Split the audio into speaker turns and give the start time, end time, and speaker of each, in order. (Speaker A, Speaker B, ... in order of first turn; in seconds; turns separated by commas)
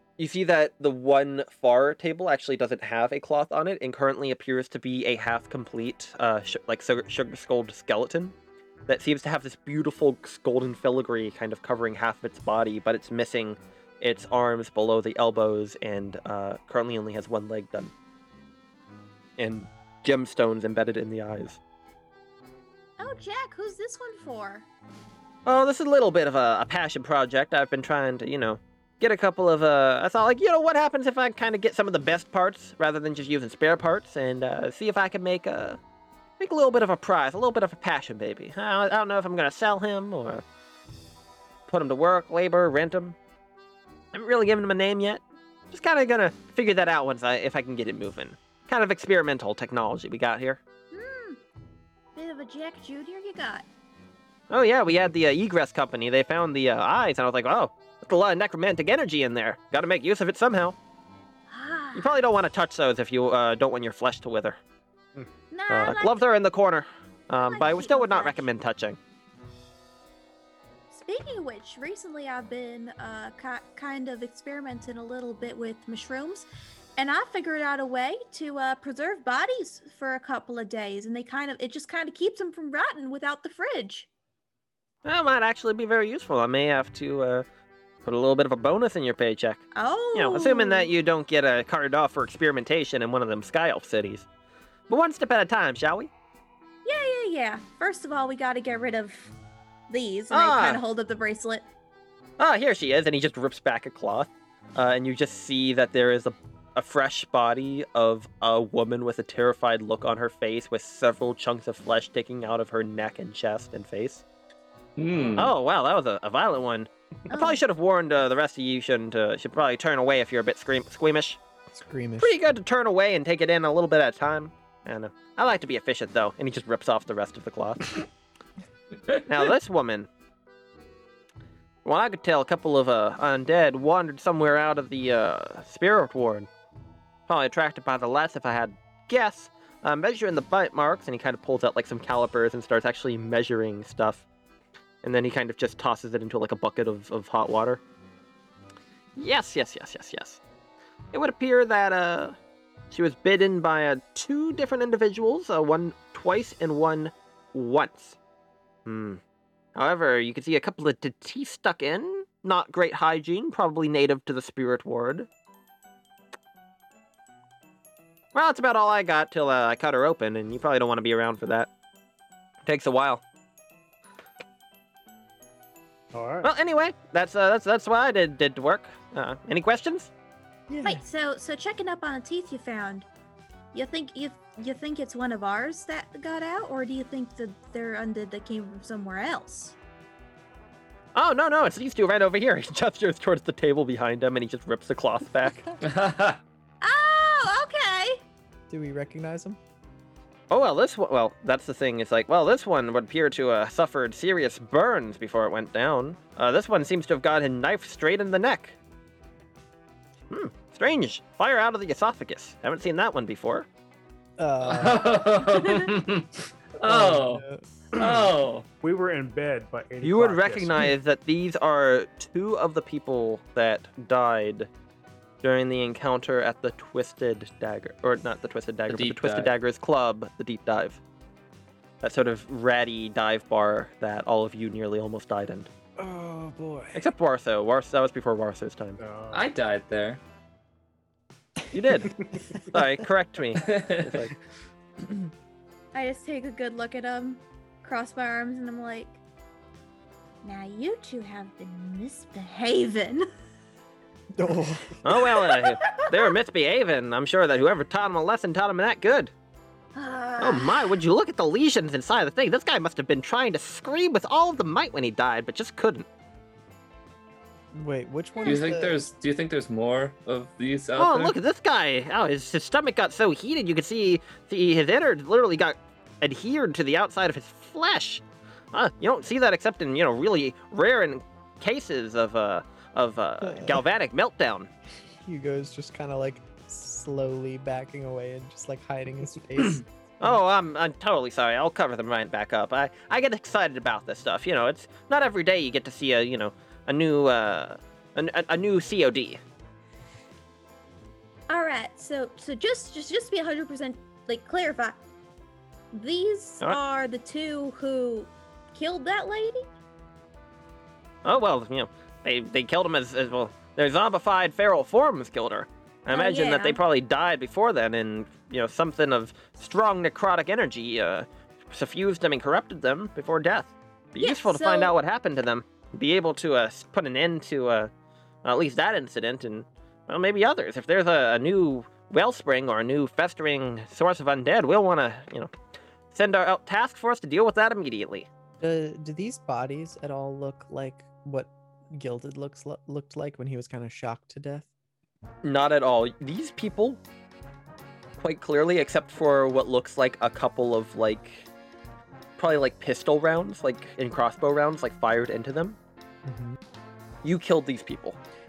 Speaker A: 0.2-8.3, Speaker A: 8.9-17.9, Speaker A: 19.4-21.6, Speaker B: 23.0-24.6, Speaker A: 25.4-35.8, Speaker A: 36.4-40.4, Speaker A: 41.7-43.1, Speaker A: 44.1-50.6, Speaker B: 50.9-51.4, Speaker B: 52.1-53.7, Speaker A: 54.5-60.8, Speaker B: 61.5-62.1, Speaker A: 61.9-64.6, Speaker B: 65.5-66.2, Speaker A: 65.7-69.0, Speaker B: 67.3-68.5, Speaker B: 70.9-84.1, Speaker A: 85.0-87.5, Speaker A: 88.0-94.2, Speaker B: 89.7-90.9, Speaker A: 94.9-96.1, Speaker B: 96.8-99.3, Speaker B: 99.9-101.7, Speaker A: 100.3-100.8, Speaker A: 102.4-114.2, Speaker C: 115.0-115.5, Speaker A: 115.4-121.4, Speaker B: 117.3-117.6, Speaker D: 121.7-122.3, Speaker A: 122.2-128.1, Speaker A: 129.2-130.1, Speaker A: 131.8-136.5, Speaker A: 137.3-144.2, Speaker A: 145.0-147.8, Speaker A: 149.2-150.4, Speaker A: 151.1-152.4, Speaker A: 152.9-158.2, Speaker A: 158.8-159.2, Speaker A: 159.8-165.3, Speaker A: 168.3-171.7, Speaker A: 172.7-173.2, Speaker E: 176.1-176.5, Speaker A: 176.4-180.1, Speaker D: 180.7-181.0, Speaker B: 180.8-183.1, Speaker B: 183.7-189.8, Speaker A: 191.1-195.6, Speaker D: 195.4-195.8, Speaker C: 195.8-196.4, Speaker B: 196.8-198.2, Speaker D: 198.7-199.6, Speaker A: 200.5-208.8, Speaker A: 210.3-213.7, Speaker D: 214.4-215.2, Speaker C: 214.6-217.4, Speaker D: 216.8-217.6, Speaker C: 217.9-218.7, Speaker E: 218.0-218.2, Speaker E: 218.8-220.9, Speaker A: 220.0-224.7, Speaker A: 225.4-231.0, Speaker C: 228.9-229.5, Speaker A: 232.0-235.7, Speaker D: 236.0-237.0, Speaker A: 236.9-239.0, Speaker E: 239.0-239.4, Speaker C: 239.3-240.2, Speaker A: 241.7-244.3, Speaker C: 243.7-244.2, Speaker B: 245.9-249.2, Speaker B: 250.4-253.3, Speaker D: 254.3-255.0, Speaker A: 255.0-259.3, Speaker B: 255.4-256.1, Speaker B: 259.9-261.0, Speaker A: 260.4-266.1, Speaker D: 267.7-269.0, Speaker C: 268.4-271.3, Speaker A: 271.0-284.7, Speaker D: 283.4-283.8, Speaker D: 285.2-290.4, Speaker A: 290.2-299.4, Speaker B: 301.5-305.0, Speaker B: 305.9-309.6, Speaker A: 311.2-327.9, Speaker B: 316.1-316.8, Speaker B: 324.2-324.9, Speaker A: 328.4-335.5, Speaker A: 336.1-338.3, Speaker D: 338.6-344.7, Speaker A: 345.4-347.0, Speaker A: 348.2-351.5, Speaker A: 352.4-355.8, Speaker D: 356.2-356.6, Speaker A: 357.2-358.2